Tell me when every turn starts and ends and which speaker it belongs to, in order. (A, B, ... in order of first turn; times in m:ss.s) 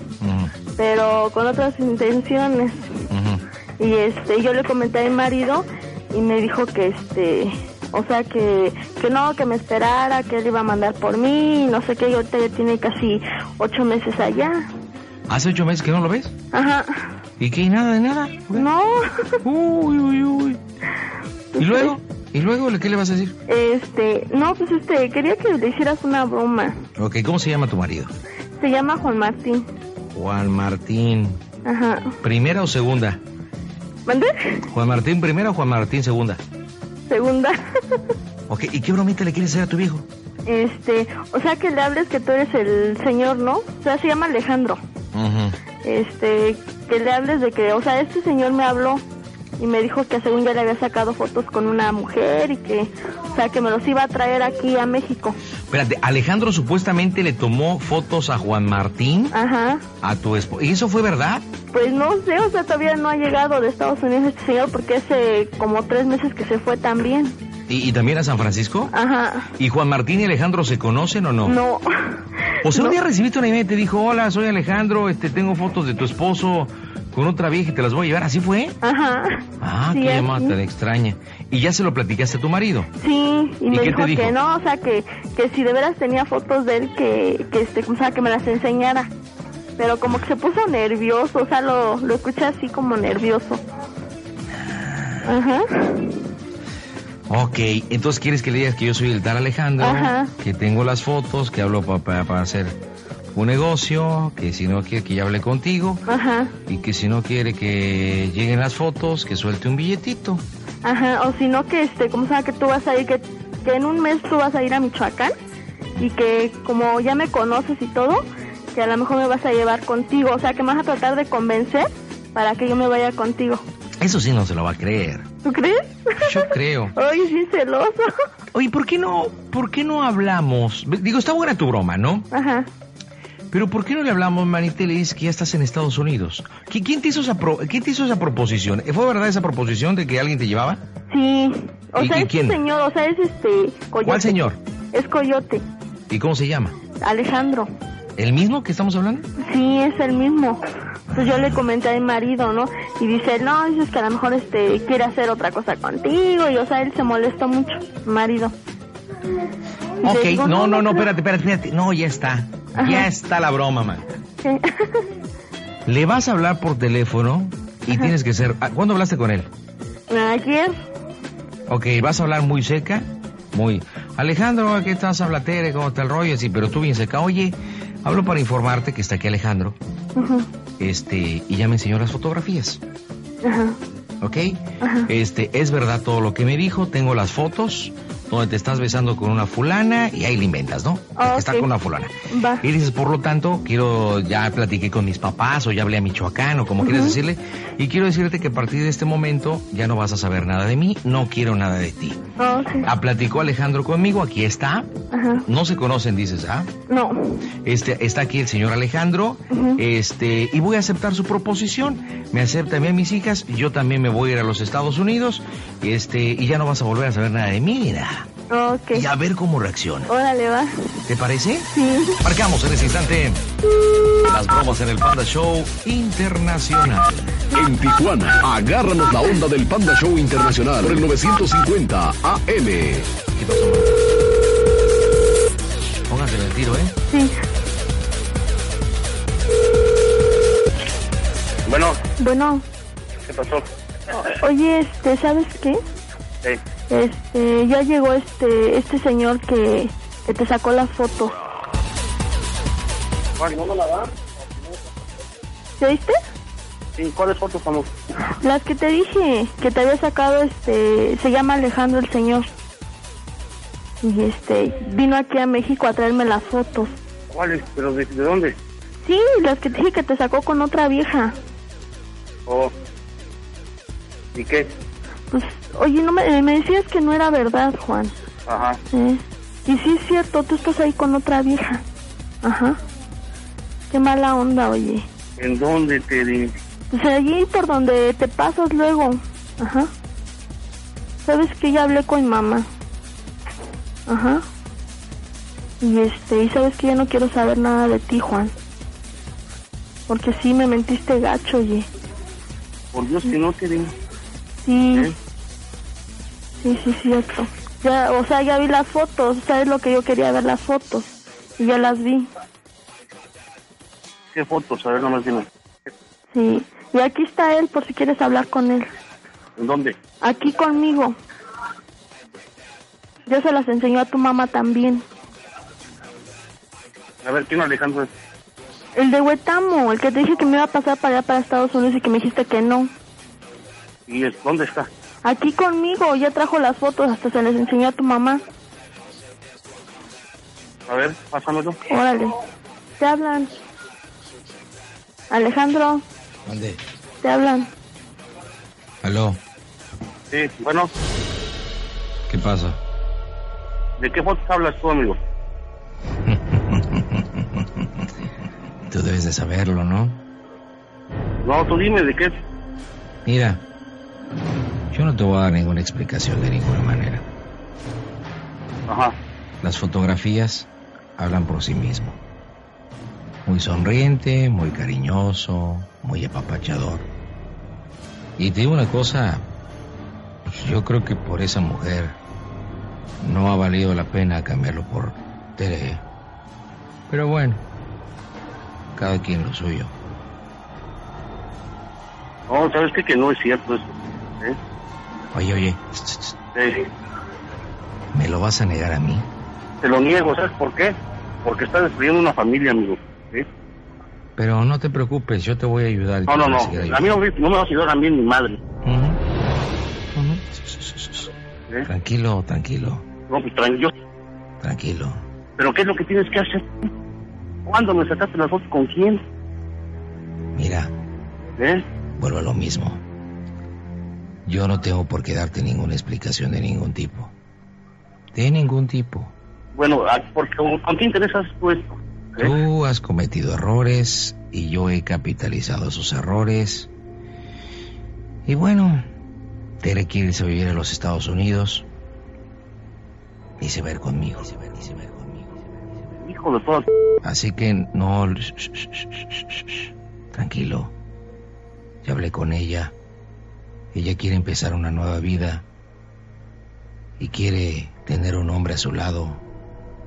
0:00.2-0:00.5 A
0:00.8-0:03.1 B
0:03.1-0:03.4 A
0:03.8-0:14.7 B
0:15.3-0:16.3 A
0:16.5-0:17.1 B
0:17.4-0:18.7 A
0:18.5-0:19.4 B
0:19.4-0:20.6 A
0:21.6-0:21.9 B
0:21.6-0:23.4 A
0:23.5-0:26.8 B
0:27.0-0:28.1 A
0:28.6-0:29.7 B
0:30.1-0:31.4 A
0:31.6-0:32.2 B
0:32.2-0:33.2 A
0:34.1-0:34.7 B
0:34.7-0:36.4 A
0:37.1-0:38.0 B
0:38.5-0:40.1 A
0:40.5-0:44.8 B
0:45.1-0:45.6 A
0:45.8-0:49.0 B
0:49.6-0:55.4 B
0:55.7-0:59.4 A
0:59.3-0:59.8 B
1:00.0-1:01.4 A
1:01.7-1:07.4 B
1:07.7-1:08.9 A
1:08.9-1:09.5 B
1:09.6-1:11.6 A
1:11.4-1:13.0 B
1:12.6-1:18.8 A
1:18.8-1:20.6 B
1:19.6-1:22.9 A
1:23.0-1:29.1 B
1:23.7-1:24.4 A
1:29.8-1:33.6 B
1:34.5-1:35.3 A
1:35.2-1:36.2 B
1:37.3-1:42.8 A
1:39.8-1:40.3 B
1:43.4-1:46.0 A
1:46.1-1:46.5 B
1:46.7-1:50.4 A
1:50.8-1:55.4 B
1:56.0-2:03.6 B
2:04.0-2:05.3 A
2:05.4-2:08.1 B
2:06.2-2:06.9 A
2:08.5-2:12.3 A
2:12.3-2:12.7 B
2:13.5-2:20.8 A
2:21.1-2:24.4 B
2:22.0-2:22.6 A
2:24.0-2:24.6 A
2:24.9-2:25.6 B
2:26.1-2:26.8 A
2:27.0-2:27.7 B
2:28.2-2:29.3 A
2:29.4-2:38.5 B
2:31.1-2:31.6 A
2:40.0-2:41.1 B
2:40.0-2:44.1 A
2:42.8-2:43.1 B
2:44.4-2:45.0 B
2:45.9-2:49.5 A
2:50.1-2:50.8 B
2:51.7-2:59.8 A
3:00.2-3:00.5 B
3:00.8-3:02.8 A
3:03.4-3:03.8 B
3:04.2-3:22.2 A
3:04.8-3:05.1 B
3:11.2-3:11.7 B
3:12.3-3:12.6 B
3:16.8-3:17.2 B
3:22.4-3:22.9 B
3:22.8-3:26.7 A
3:25.1-3:25.4 B
3:26.9-3:27.5 B
3:27.6-3:38.3 A
3:29.5-3:29.8 B
3:38.5-3:39.1 B
3:38.9-3:40.1 A
3:40.1-3:41.0 B
3:41.1-3:41.7 A
3:41.7-3:42.2 B
3:42.2-3:43.4 A
3:44.2-3:47.4 A
3:47.6-3:53.1 C
3:53.3-3:54.1 A
3:56.1-3:57.0 A
3:57.1-3:57.4 B
4:01.7-4:02.0 D
4:02.2-4:02.6 B
4:03.3-4:03.7 D
4:04.2-4:05.8 B
4:06.9-4:11.4 B
4:13.4-4:14.3 D
4:15.8-4:16.2 B
4:17.0-4:17.9 D
4:18.4-4:22.5 B
4:24.0-4:27.0 B
4:27.3-4:28.6 D
4:29.0-4:31.4 B
4:32.5-4:32.7 D
4:34.3-4:34.7 D
4:35.3-4:38.1 B
4:38.5-4:38.8 D
4:38.9-4:41.8 B
4:42.4-4:42.8 B
4:43.9-4:45.1 B
4:45.4-4:46.6 D
4:46.9-4:49.9 B
4:51.2-4:52.7 B
4:54.1-4:54.4 B
4:55.8-4:58.5 B
5:00.1-5:01.9 B
5:02.9-5:03.9 D
5:04.6-5:05.1 B
5:06.6-5:11.1 B
5:11.6-5:12.3 B
5:14.3-5:15.5 D
5:16.3-5:18.9 B
5:19.6-5:20.0 D
5:20.2-5:21.2 B
5:23.3-5:25.0 B
5:27.2-5:28.1 D
5:29.0-5:32.9 B
5:34.1-5:34.9 D
5:35.2-5:38.4 B
5:40.9-5:41.8 D
5:41.9-5:42.4 B
5:43.0-5:43.5 B
5:45.3-5:46.0 B
5:46.4-5:46.8 A
5:47.2-5:47.7 B
5:49.0-5:49.4 A
5:50.3-5:50.9 D
5:52.3-5:52.8 A
5:54.0-5:55.2 D
5:56.2-5:58.1 A
5:58.9-6:00.2 A
6:01.4-6:02.3 D
6:03.3-6:03.6 A
6:04.9-6:07.2 A
6:08.9-6:09.2 D
6:09.6-6:12.2 A
6:13.5-6:17.1 A
6:18.4-6:19.5 A
6:20.5-6:22.2 A
6:23.2-6:26.0 A
6:27.1-6:27.6 A
6:29.0-6:29.9 A
6:32.5-6:34.6 D
6:35.3-6:36.4 A
6:36.6-6:36.9 D
6:38.1-6:39.3 A
6:39.8-6:43.5 D
6:44.4-6:47.2 A
6:46.3-6:48.6 D
6:48.8-6:49.2 A
6:50.1-6:51.3 A
6:51.8-6:53.0 A
6:53.3-6:53.9 D
6:54.6-6:55.2 A
6:55.6-6:56.9 D
6:57.7-6:59.2 D
7:00.6-7:00.9 A
7:01.6-7:01.8 D
7:02.2-7:03.0 A
7:04.5-7:07.3 A
7:08.3-7:09.3 A
7:09.8-7:12.5 D
7:12.4-7:16.9 A
7:18.5-7:19.1 A
7:19.8-7:21.9 A
7:23.6-7:25.6 A
7:26.2-7:26.9 D
7:27.2-7:30.9 A
7:32.0-7:32.9 A
7:33.9-7:35.6 A
7:37.2-7:39.4 A